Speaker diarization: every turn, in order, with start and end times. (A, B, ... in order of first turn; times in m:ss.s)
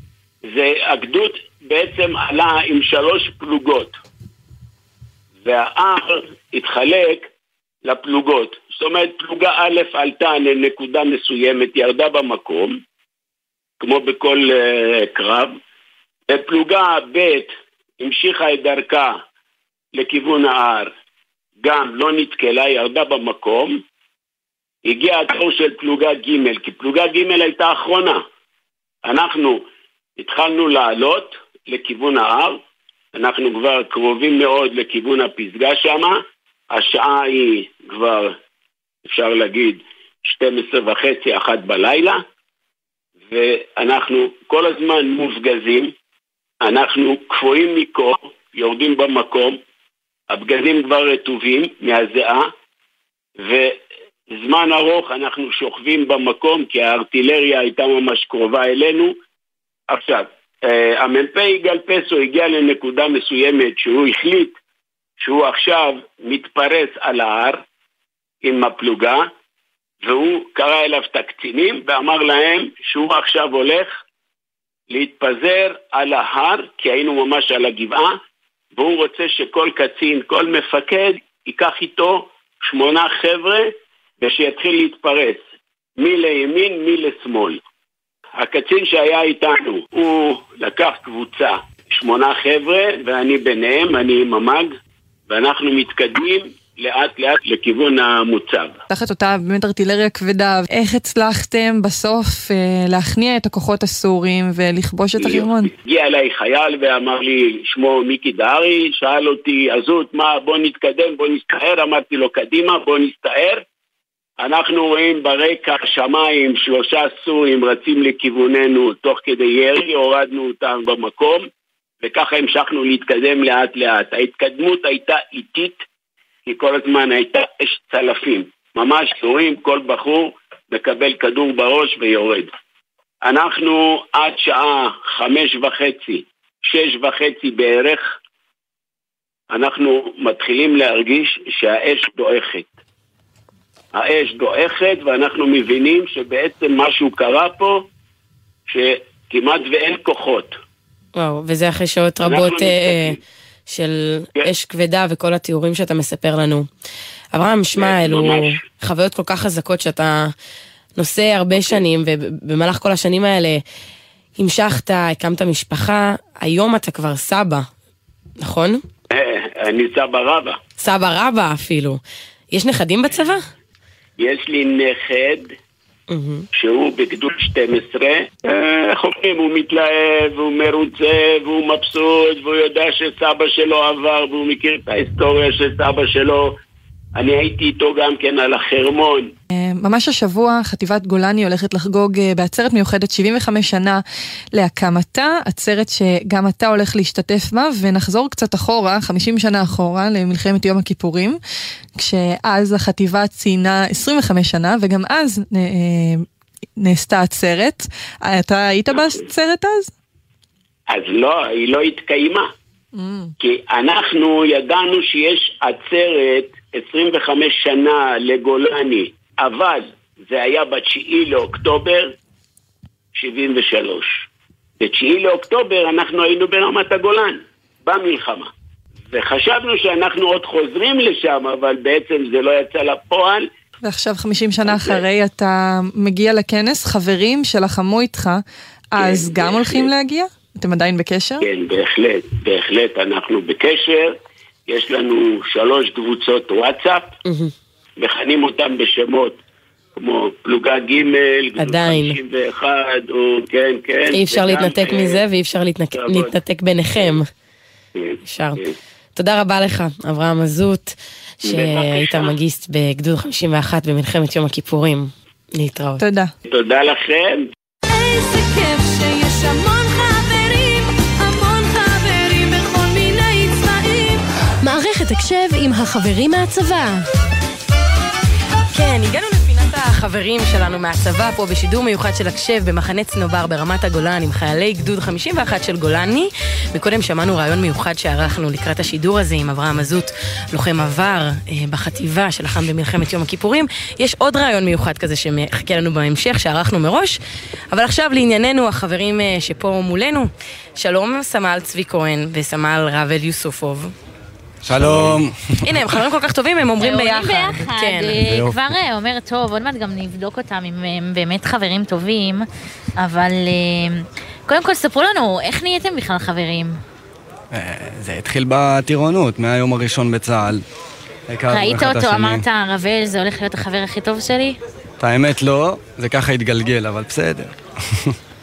0:00.5-0:03.9 A
0:05.4-0:07.2 A
0:07.8-0:12.8 A
0:13.8-0:15.6 A
0:16.3-0:19.1 A
0:19.9-0:20.9 A
0:21.6-0:23.8 A
0:24.8-0:28.2 A
0:29.0-0:29.6 A
0:30.2-0:32.6 A
0:33.2-0:36.2 A
0:36.7-0:38.3 A
0:39.0-0:42.2 A
0:43.3-0:45.9 A
0:46.6-0:49.6 A
0:50.3-0:52.5 A
0:53.4-0:53.8 A
0:54.3-0:59.1 A
0:59.9-1:04.6 A
1:05.2-1:07.6 A
1:08.4-1:09.3 A
1:10.0-1:13.9 A
1:14.9-1:18.2 A
1:18.8-1:23.7 A
1:24.2-1:25.4 A
1:26.0-1:27.6 A
1:28.4-1:34.7 A
1:35.3-1:38.8 A
1:38.9-1:45.7 B
1:45.2-1:53.6 A
1:54.4-2:01.4 A
2:02.0-2:05.8 A
2:06.4-2:12.5 A
2:13.2-2:18.1 A
2:19.5-2:22.7 A
2:23.9-2:27.8 A
2:28.7-2:30.6 A
2:31.1-2:33.2 C
2:32.2-2:33.2 A
2:33.7-2:36.7 C
2:37.3-2:40.3 C
2:37.8-2:38.6 A
2:41.0-2:43.6 C
2:41.6-2:41.8 A
2:44.4-2:47.6 C
2:48.4-2:48.8 C
2:49.1-2:50.6 A
2:50.8-2:52.0 C
2:52.5-2:53.4 C
2:54.2-2:55.5 A
2:56.1-2:56.4 C
2:56.5-3:06.5 A
3:07.2-3:09.3 A
3:09.6-3:14.0 B
3:14.5-3:21.4 B
3:22.0-3:26.2 B
3:26.8-3:29.9 B
3:30.9-3:32.5 A
3:32.9-3:33.3 B
3:33.4-3:42.1 A
3:43.2-3:44.2 A
3:44.8-3:48.5 A
3:49.1-3:53.5 A
3:53.8-3:58.4 B
3:54.6-3:55.0 A
3:58.9-4:01.4 B
3:59.0-3:59.9 A
4:01.4-4:04.2 A
4:04.7-4:07.1 A
4:07.3-4:07.5 C
4:08.0-4:09.4 A
4:10.0-4:15.2 A
4:11.6-4:12.2 C
4:14.1-4:17.3 C
4:16.0-4:16.3 A
4:18.0-4:18.7 A
4:18.2-4:18.6 C
4:19.2-4:26.0 C
4:21.4-4:22.3 A
4:26.0-4:26.3 B
4:26.5-4:27.4 A
4:27.9-4:37.0 D
4:38.7-4:57.2 C
4:57.7-5:03.9 C
5:04.6-5:06.0 E
5:05.6-5:08.2 C
5:06.8-5:12.4 F
5:08.2-5:08.6 E
5:13.0-5:16.8 F
5:17.5-5:20.6 E
5:21.3-5:22.4 E
5:21.5-5:24.6 F
5:25.0-5:27.5 E